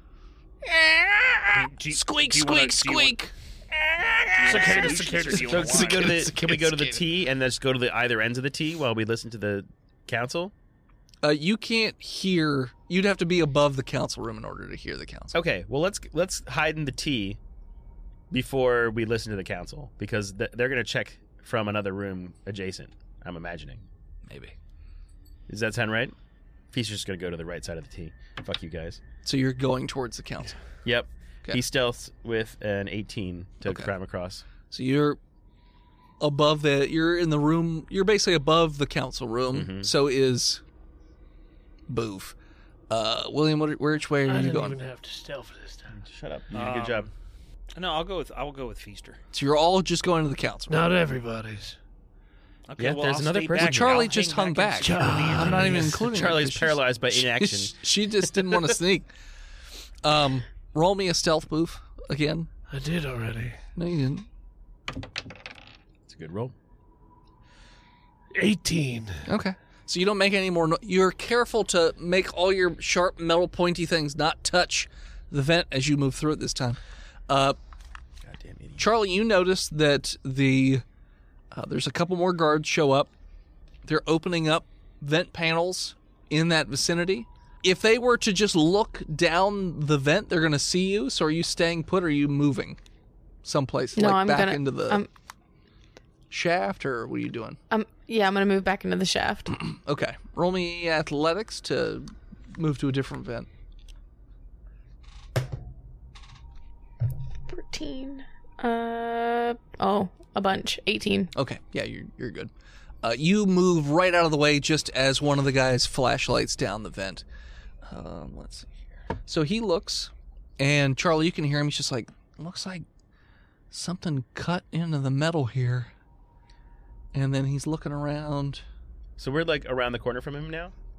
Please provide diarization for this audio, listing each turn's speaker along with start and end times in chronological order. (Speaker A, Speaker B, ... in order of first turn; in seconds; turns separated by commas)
Speaker A: 0.6-7.1, Speaker B: 1.5-3.2, Speaker B: 4.4-6.3, Speaker C: 4.5-5.7, Speaker D: 5.5-10.5, Speaker A: 11.2-15.4, Speaker D: 15.3-17.4, Speaker D: 18.3-23.9, Speaker A: 24.3-24.6, Speaker D: 25.5-26.1, Speaker D: 26.7-29.0, Speaker A: 29.2-30.6, Speaker D: 30.9-34.4, Speaker A: 33.6-33.9, Speaker A: 34.7-35.2, Speaker A: 36.2-40.6, Speaker D: 39.5-39.9, Speaker A: 41.9-42.4, Speaker A: 42.9-44.8, Speaker C: 44.3-45.9, Speaker D: 45.9-47.1, Speaker B: 46.5-47.1, Speaker B: 47.8-49.2, Speaker A: 49.3-50.9, Speaker C: 50.7-51.8, Speaker B: 52.7-55.7, Speaker D: 52.8-54.2, Speaker A: 53.5-59.1, Speaker C: 54.8-56.0, Speaker D: 55.7-57.7, Speaker A: 60.0-62.5, Speaker C: 62.7-63.6, Speaker A: 63.8-64.3, Speaker D: 66.1-66.5, Speaker C: 68.3-69.2, Speaker A: 69.3-77.6, Speaker D: 78.2-78.9, Speaker A: 78.8-80.8, Speaker A: 81.5-83.1, Speaker A: 83.8-92.8, Speaker A: 93.4-95.0, Speaker E: 94.0-95.1, Speaker A: 96.3-97.6, Speaker E: 97.7-99.6, Speaker A: 99.6-103.5, Speaker E: 107.5-111.3, Speaker A: 111.3-112.5, Speaker A: 113.0-117.2, Speaker A: 117.8-122.8, Speaker A: 123.7-125.9, Speaker A: 127.1-128.6, Speaker D: 129.2-130.7